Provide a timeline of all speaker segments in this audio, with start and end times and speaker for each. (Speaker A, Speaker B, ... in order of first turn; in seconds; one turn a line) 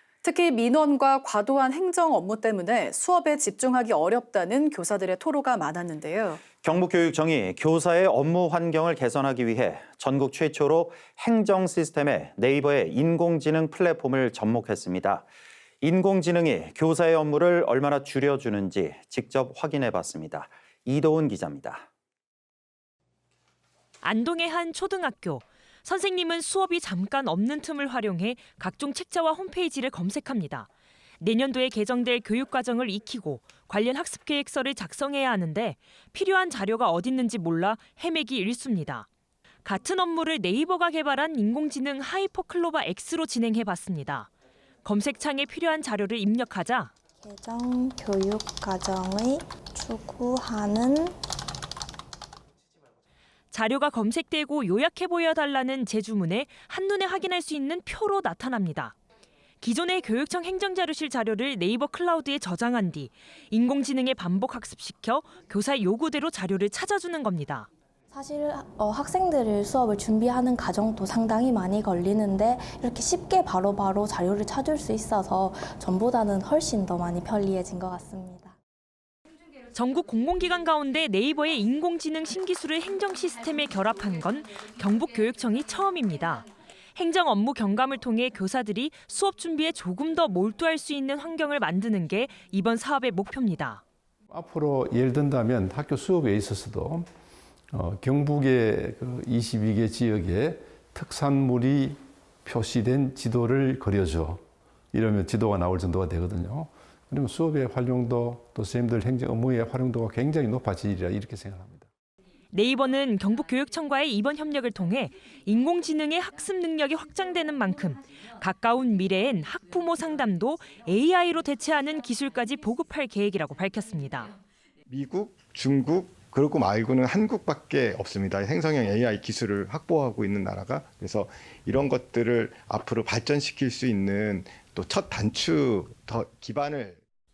Speaker A: 0.2-6.4
Speaker B: 6.5-15.3
Speaker B: 15.8-21.9
Speaker C: 24.0-30.7
Speaker C: 31.2-39.1
Speaker C: 39.6-44.3
Speaker C: 44.8-46.9
Speaker D: 47.2-51.2
Speaker C: 53.5-59.0
Speaker C: 59.6-67.7
Speaker D: 68.1-78.5
Speaker C: 79.7-93.8
Speaker E: 94.3-97.1
Speaker E: 97.7-104.4
Speaker E: 104.9-111.9
Speaker C: 112.5-124.3
Speaker F: 124.9-137.0